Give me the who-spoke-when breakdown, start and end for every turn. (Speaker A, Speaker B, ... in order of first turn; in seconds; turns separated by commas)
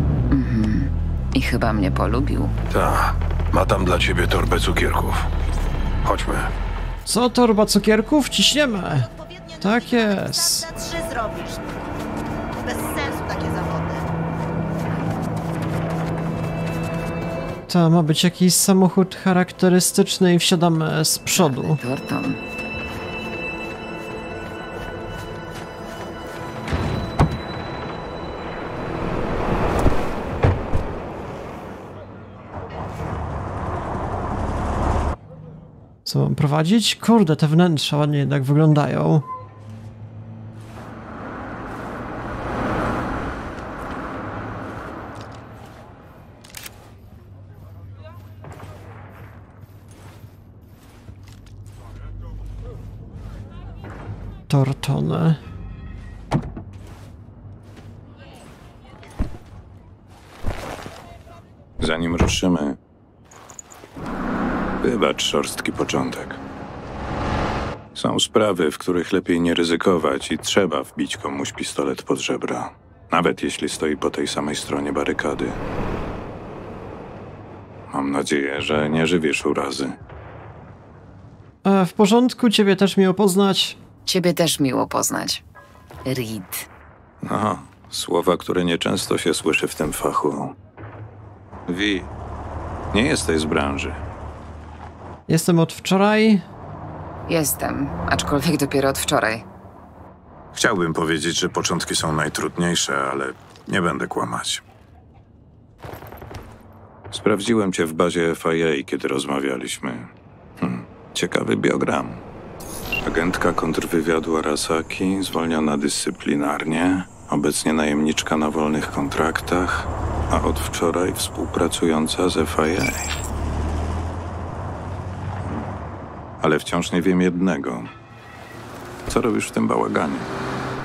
Speaker A: 0.3-2.5, Speaker B: 2.7-5.3, Speaker B: 6.0-6.5, Speaker C: 7.0-10.9, Speaker C: 17.7-21.8, Speaker A: 21.4-22.4, Speaker C: 36.0-39.2, Speaker C: 54.5-55.4, Speaker D: 61.8-62.8, Speaker D: 64.8-66.4, Speaker D: 67.9-75.6, Speaker D: 77.9-80.0, Speaker C: 81.6-83.8, Speaker A: 84.0-85.4, Speaker A: 86.0-86.7, Speaker D: 87.2-90.5, Speaker D: 91.7-92.1, Speaker D: 92.9-94.0, Speaker C: 95.3-96.4, Speaker A: 97.3-99.4, Speaker D: 100.5-104.6, Speaker D: 107.1-112.2, Speaker D: 113.0-123.1, Speaker D: 125.4-125.7, Speaker D: 126.4-127.9, Speaker D: 129.1-130.3